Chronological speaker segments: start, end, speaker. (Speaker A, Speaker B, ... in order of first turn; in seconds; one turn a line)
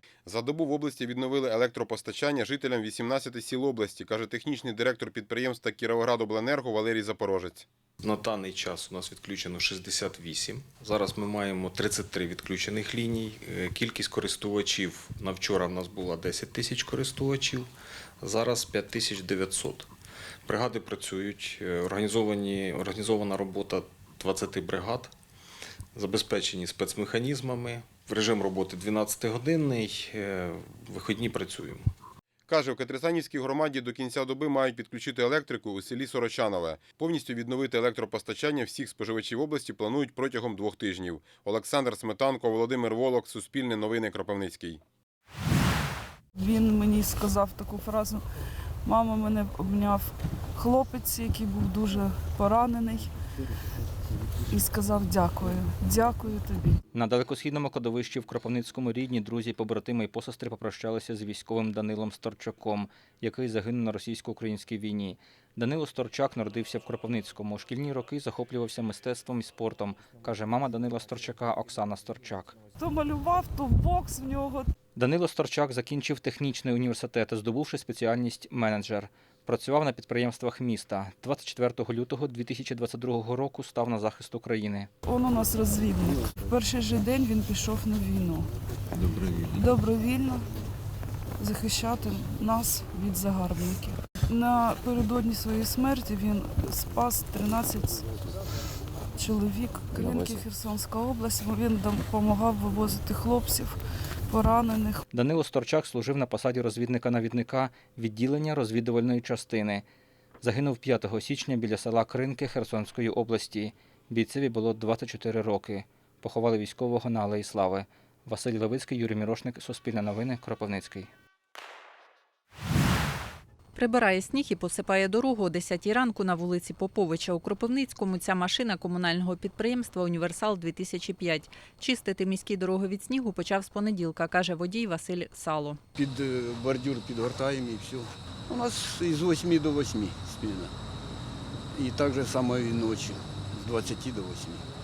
Speaker A: 0.3-7.7
Speaker B: 8.0-17.7
Speaker B: 18.2-19.9
Speaker B: 20.5-25.1
Speaker B: 25.9-31.8
Speaker A: 32.5-44.8
Speaker C: 46.4-48.2
Speaker C: 48.9-53.1
Speaker C: 54.5-56.8
Speaker D: 56.9-72.6
Speaker C: 72.8-74.7
Speaker D: 75.0-84.9
Speaker C: 85.0-88.5
Speaker C: 89.0-90.5
Speaker C: 91.4-98.0
Speaker C: 99.2-103.8
Speaker C: 104.3-105.0
Speaker D: 105.1-109.8
Speaker D: 110.4-121.1
Speaker E: 123.8-135.8
Speaker F: 136.0-140.7
Speaker F: 141.8-144.6